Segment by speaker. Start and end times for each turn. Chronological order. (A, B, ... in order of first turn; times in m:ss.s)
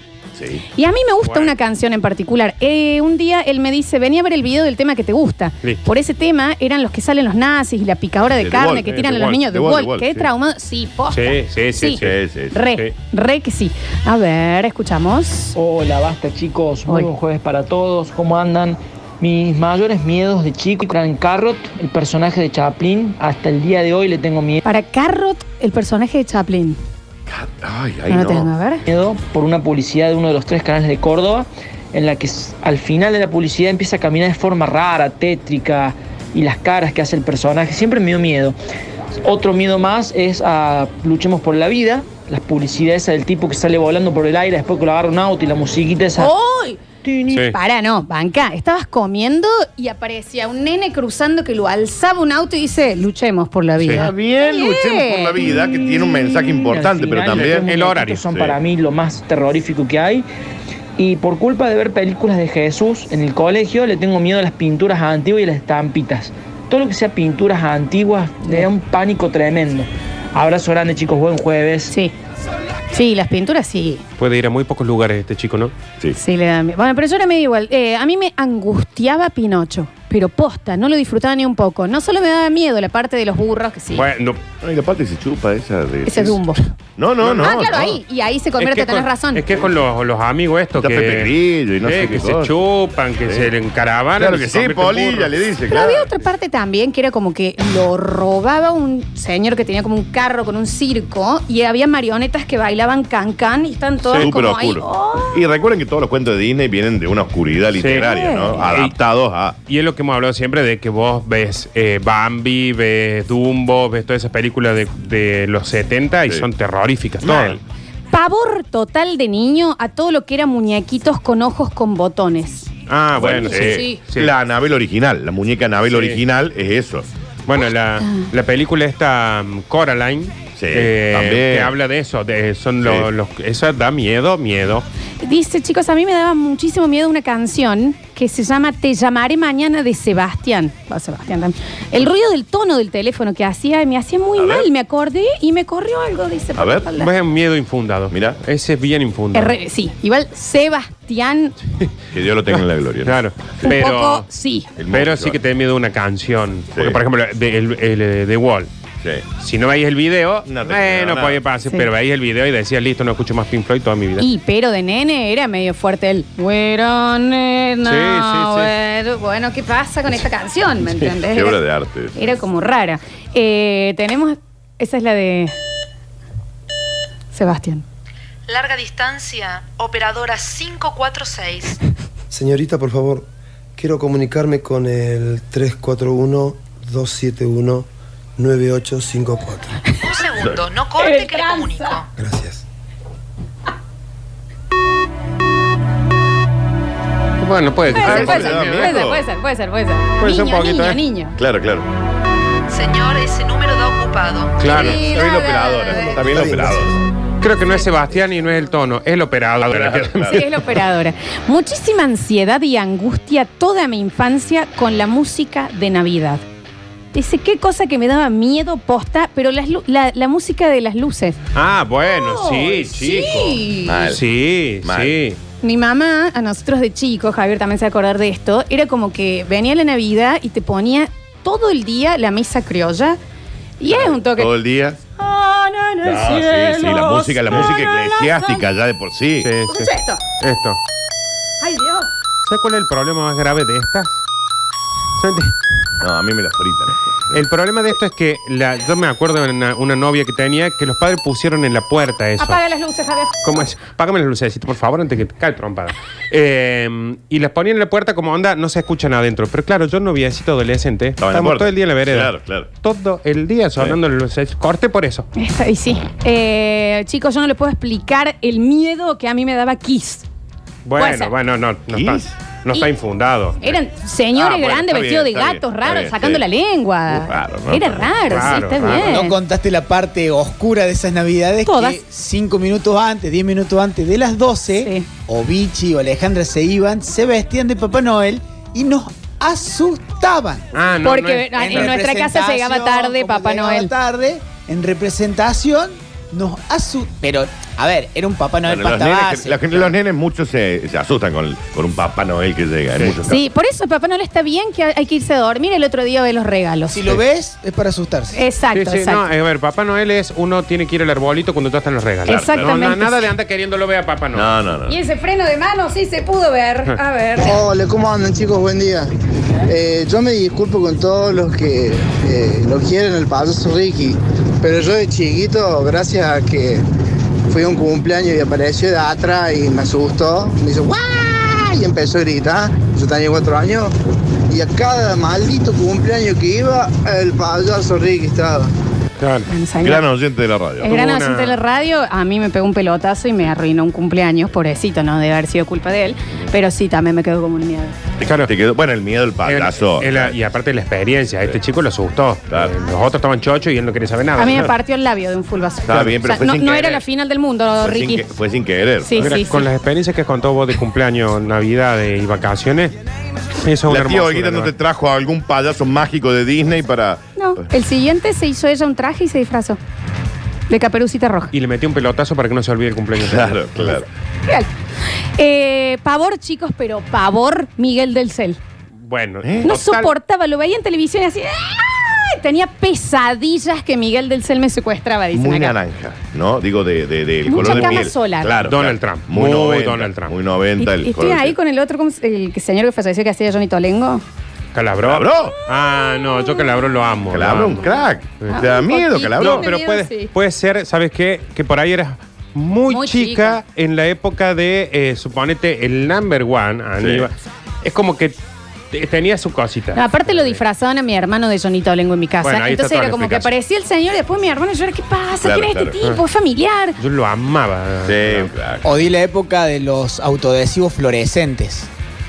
0:00.3-0:00.6 A
0:00.8-0:12.0 B
0:01.2-0:01.6 C
0:08.3-0:10.3 A
0:08.9-0:09.4 C
0:11.1-0:12.2 C
0:12.0-0:12.6 A
0:12.5-0:15.5 B
0:15.5-0:24.6 D
0:24.6-0:26.8 B
0:27.3-0:28.5 A
0:28.1-0:28.8 B
0:28.9-0:38.6 D
0:39.2-0:46.3 D
0:46.2-0:55.5 B
0:53.9-0:57.7 A
0:56.0-1:00.2 D
0:57.7-0:58.2 C
0:58.3-0:58.6 A
1:01.0-1:11.9 D
1:11.9-1:12.1 B
1:12.9-1:14.0 B
1:14.2-1:15.7 C
1:16.2-1:24.0 B
1:23.9-1:24.4 C
1:24.6-1:26.4 A
1:26.0-1:26.6 B
1:27.0-1:28.0 A
1:27.2-1:29.6 B
1:28.6-1:35.3 C
1:30.8-1:32.5 A
1:33.2-1:33.5 A
1:34.2-1:36.1 A
1:35.7-1:45.4 B
1:44.2-1:49.6 A
1:47.8-1:48.1 C
1:48.0-1:48.6 B
1:48.6-1:48.9 C
1:49.7-1:57.6 C
1:57.2-1:57.6 A
1:58.1-2:02.7 B
2:02.9-2:04.3 C
2:03.2-2:07.1 A
2:03.4-2:04.0 B
2:05.9-2:06.2 C
2:07.5-2:14.8 C
2:08.0-2:08.3 B
2:10.6-2:11.7 A
2:12.8-2:13.1 A
2:15.2-2:27.1 B
2:24.4-2:24.7 A
2:26.6-2:26.9 A
2:27.0-2:29.6 C
2:28.1-2:28.4 A
2:29.3-2:31.5 B
2:32.1-2:33.8 A
2:32.5-2:34.2 C
2:33.6-2:34.7 B
2:34.8-2:35.4 A
2:34.9-2:38.7 C
2:36.7-2:37.0 A
2:39.0-2:39.2 A
2:39.4-2:44.2 C
2:40.4-2:41.4 A
2:44.2-2:55.5 B
2:47.8-2:48.7 C
2:51.2-2:52.2 A
2:57.3-2:57.8 B
2:58.5-3:01.8 E
3:02.3-3:09.8 F
3:09.9-3:12.1 E
3:11.0-3:12.0 B
3:12.2-3:12.6 F
3:17.4-3:19.0 C
3:17.9-3:19.2 A
3:17.9-3:21.3 B
3:20.2-3:21.0 C
3:21.4-3:21.9 A
3:22.7-3:24.8 E
3:24.6-3:25.0 C
3:24.6-3:27.0 A
3:24.7-3:26.4 B
3:26.3-3:26.7 G
3:27.4-3:30.5 C
3:29.7-3:30.5 A
3:30.2-3:36.4 B
3:37.1-3:41.4 B
3:41.5-3:45.4 C
3:42.0-3:44.1 B
3:43.8-3:44.2 A
3:44.8-3:45.2 A
3:45.6-3:53.2 B
3:53.8-3:54.5 B
3:53.8-3:55.0 A
3:55.2-3:58.6 B
3:56.0-3:59.5 A
3:59.4-4:00.8 C
3:59.7-4:00.2 B
4:01.6-4:02.1 B
4:02.4-4:04.2 C
4:05.2-4:05.5 C
4:06.0-4:07.4 A
4:07.3-4:12.6 C
4:12.4-4:13.6 B
4:13.4-4:25.3 C
4:21.2-4:22.7 A
4:25.3-4:30.2 B
4:30.8-4:33.8 C
4:31.0-4:31.3 B
4:31.9-4:32.3 A
4:33.6-4:39.4 B
4:34.3-4:36.4 A
4:37.1-4:38.1 A
4:38.3-4:39.2 C
4:39.0-4:59.9 G
4:41.6-4:42.0 B
4:44.8-4:45.1 B
4:50.7-4:51.9 C
4:51.0-4:53.9 B
4:58.6-5:03.4 A
5:03.2-5:07.2 B
5:06.9-5:08.4 G
5:08.3-5:09.2 B
5:08.7-5:14.5 C
5:12.3-5:13.3 B
5:14.3-5:15.0 A
5:14.9-5:17.5 B
5:17.4-5:19.1 H
5:19.6-5:26.8 H
5:27.4-5:34.0 H
5:34.5-5:38.7 H
5:39.2-5:39.5 C
5:39.5-5:40.0 B
5:39.8-5:41.0 A
5:40.8-5:48.0 B
5:40.9-5:41.6 C
5:48.2-5:48.5 C
5:48.2-5:50.4 A
5:49.4-5:54.7 C
5:52.5-5:52.7 A
5:54.4-5:58.2 B
5:55.8-5:57.0 A
5:57.8-5:59.4 A
5:59.0-5:59.7 B
5:59.2-6:02.9 C
6:03.6-6:04.7 C
6:03.8-6:07.7 A
6:07.4-6:09.8 B
6:10.7-6:11.5 B
6:11.5-6:13.6 C
6:13.2-6:14.0 A
6:15.2-6:18.6 B
6:19.0-6:20.1 C
6:19.4-6:19.8 A
6:19.6-6:25.8 B
6:25.3-6:31.6 A
6:27.4-6:28.5 B
6:27.6-6:28.1 C
6:28.6-6:30.3 C
6:30.8-6:34.2 B
6:34.7-6:37.8 C
6:35.0-6:35.6 A
6:35.8-6:36.9 B
6:37.3-6:39.7 A
6:38.5-6:40.3 B
6:39.4-6:48.3 C
6:42.9-6:43.6 B
6:47.0-6:47.3 A
6:48.9-6:50.6 C
6:49.9-6:57.0 B
6:52.4-6:53.5 C
6:55.4-6:56.0 A
6:57.0-6:58.5 C
6:58.0-6:58.9 A
6:58.8-7:01.9 G